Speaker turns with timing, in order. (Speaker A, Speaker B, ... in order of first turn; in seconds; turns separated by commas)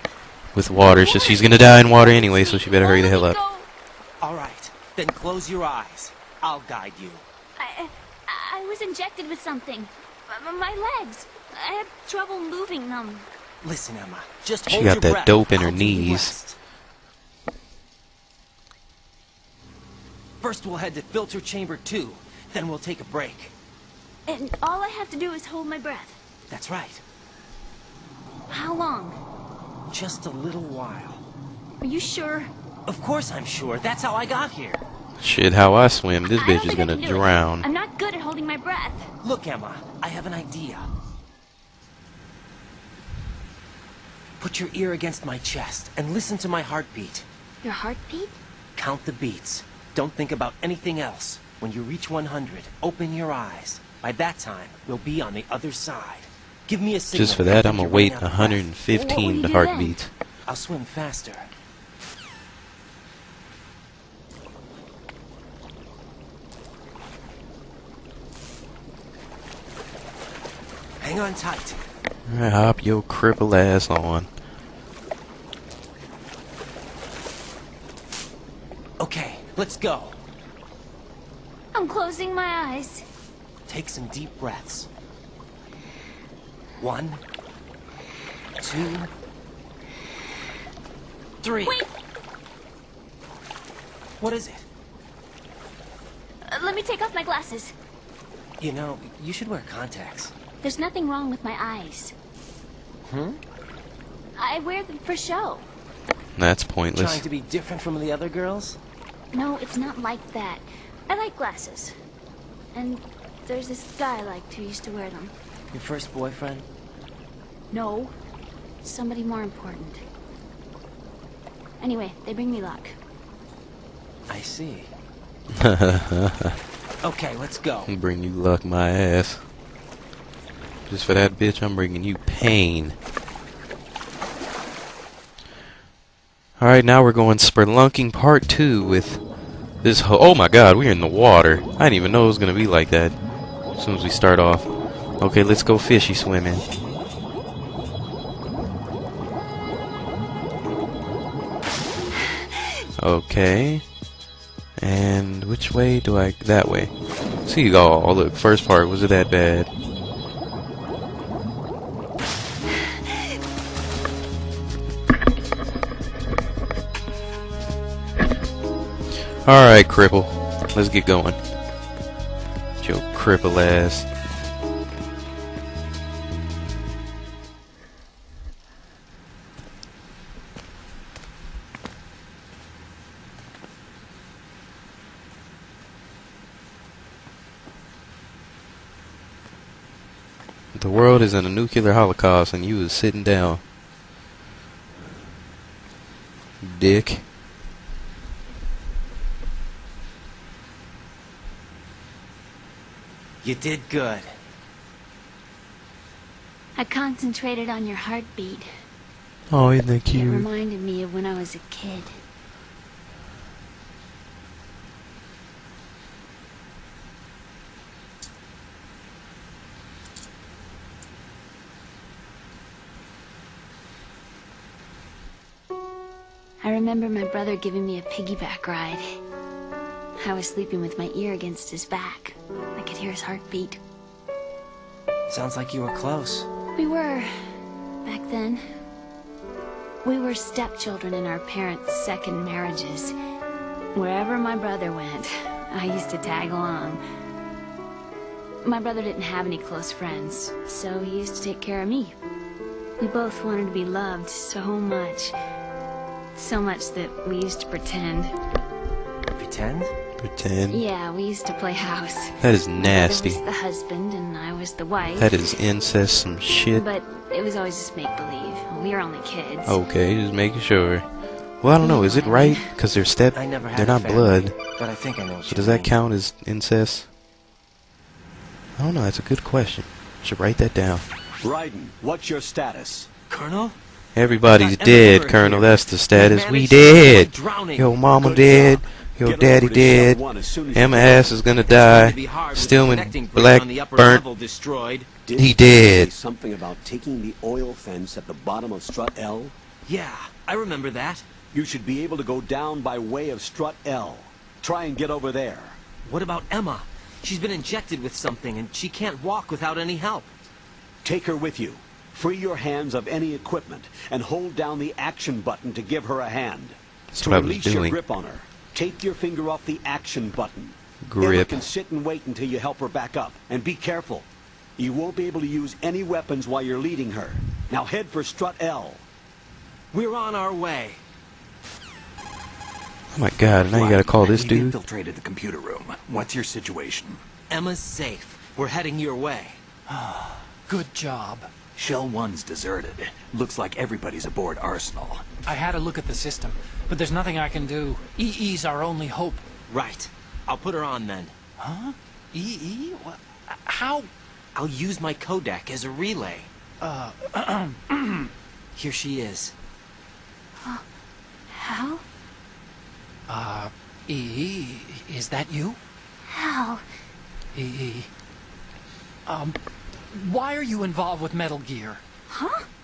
Speaker A: 0.5-3.4, Speaker B: 0.7-3.7, Speaker C: 4.2-7.2, Speaker B: 7.6-13.3, Speaker C: 13.6-16.6, Speaker A: 14.7-16.4, Speaker C: 20.4-23.5, Speaker B: 24.3-26.2, Speaker C: 26.5-27.0, Speaker B: 28.5-29.2, Speaker C: 29.9-31.2, Speaker B: 31.8-32.5, Speaker C: 32.9-34.8, Speaker A: 35.2-37.6, Speaker B: 36.2-39.1, Speaker C: 39.2-40.9, Speaker C: 44.4-47.2, Speaker B: 47.6-48.4, Speaker C: 48.8-58.7, Speaker A: 57.1-60.1, Speaker B: 58.9-60.0, Speaker C: 60.5-61.5, Speaker C: 71.0-71.8, Speaker A: 72.3-74.3, Speaker C: 79.0-80.2, Speaker B: 81.7-83.0, Speaker C: 83.7-84.9, Speaker C: 86.8-87.2, Speaker C: 88.6-89.1, Speaker C: 91.4-91.8, Speaker B: 91.6-91.9, Speaker C: 94.2-94.6, Speaker B: 96.5-97.7, Speaker C: 98.6-100.3, Speaker B: 100.6-102.1, Speaker C: 103.0-103.4, Speaker B: 104.4-105.7, Speaker A: 106.3-107.2, Speaker C: 106.9-108.8, Speaker B: 109.3-111.9, Speaker B: 112.7-115.3, Speaker C: 115.7-116.7, Speaker B: 117.7-118.1, Speaker B: 118.8-120.0, Speaker B: 121.8-123.0, Speaker C: 124.3-124.9, Speaker A: 125.6-126.5, Speaker C: 127.0-127.9, Speaker A: 127.9-129.4, Speaker A: 130.9-133.0, Speaker A: 136.6-146.7, Speaker A: 153.0-153.8, Speaker A: 154.8-159.7, Speaker A: 169.4-171.4, Speaker A: 172.8-174.1, Speaker A: 190.7-193.6, Speaker A: 196.6-197.3, Speaker C: 203.4-204.3, Speaker B: 206.8-208.7, Speaker A: 209.5-210.5, Speaker B: 210.1-212.1, Speaker B: 226.6-229.0, Speaker B: 230.2-233.8, Speaker C: 235.3-236.5, Speaker B: 236.8-237.3, Speaker B: 238.0-238.6, Speaker B: 240.0-243.1, Speaker B: 243.9-247.0, Speaker B: 248.6-252.1, Speaker B: 253.0-255.3, Speaker B: 256.3-258.3, Speaker C: 259.4-259.9, Speaker A: 260.2-260.8, Speaker B: 260.7-265.4, Speaker A: 262.4-263.4, Speaker A: 265.2-266.8, Speaker B: 266.7-269.8, Speaker A: 269.6-274.5, Speaker B: 271.8-272.7, Speaker C: 273.3-275.9, Speaker A: 275.4-277.1, Speaker A: 278.8-281.0, Speaker D: 281.4-283.1, Speaker C: 283.3-283.8, Speaker A: 284.1-290.2, Speaker C: 284.5-288.0, Speaker D: 288.2-291.4, Speaker A: 290.7-294.2, Speaker C: 291.7-295.1, Speaker D: 295.2-299.5, Speaker A: 295.4-296.1, Speaker C: 299.9-301.3, Speaker D: 301.5-305.8, Speaker C: 306.0-310.3, Speaker D: 311.0-324.3, Speaker A: 317.1-317.9, Speaker A: 321.0-321.6, Speaker D: 324.8-329.0, Speaker C: 329.9-331.0, Speaker A: 333.1-334.8, Speaker C: 333.7-334.4, Speaker E: 334.1-337.2, Speaker C: 337.5-339.6, Speaker F: 339.9-341.5, Speaker E: 341.7-345.2, Speaker F: 345.4-349.4, Speaker C: 349.7-351.3, Speaker F: 351.6-354.1, Speaker C: 354.5-356.5, Speaker F: 356.8-358.3, Speaker C: 358.8-359.5, Speaker B: 361.5-362.0, Speaker F: 363.3-365.8, Speaker B: 366.2-366.8, Speaker F: 367.5-368.1, Speaker F: 369.2-369.6, Speaker F: 370.1-372.0, Speaker B: 372.3-372.6